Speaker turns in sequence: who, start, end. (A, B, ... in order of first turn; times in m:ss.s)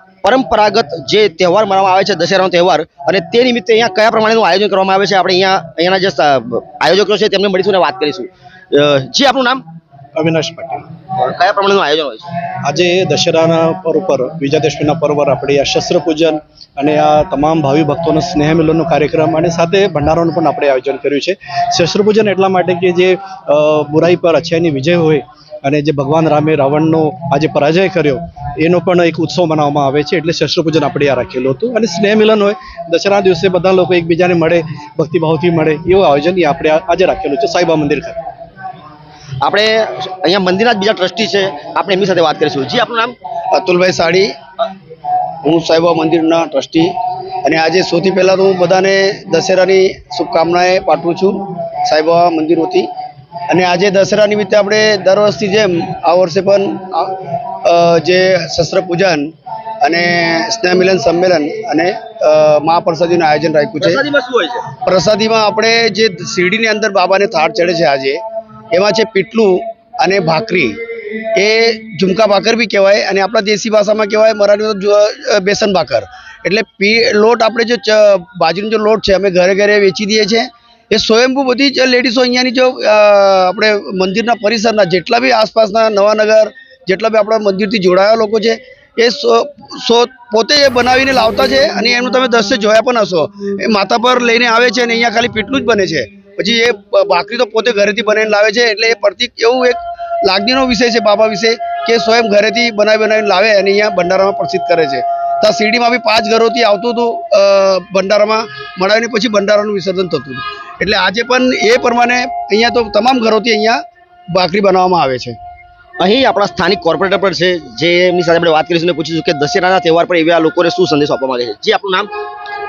0:00.2-0:09.6 A
0:10.2-0:10.9 B
0:11.2-0:12.3 A
0:12.6-0:38.2 B
0:39.4-0:43.1 A
0:43.5-0:44.3 C
0:45.4-0:46.9 C
0:47.4-0:52.9 C
0:53.5-0:59.3 C
0:59.8-1:04.0 C
1:03.8-1:04.6 A
1:04.8-1:08.2 C
1:08.7-1:10.7 C
1:11.4-1:55.4 C
1:56.0-2:02.1 A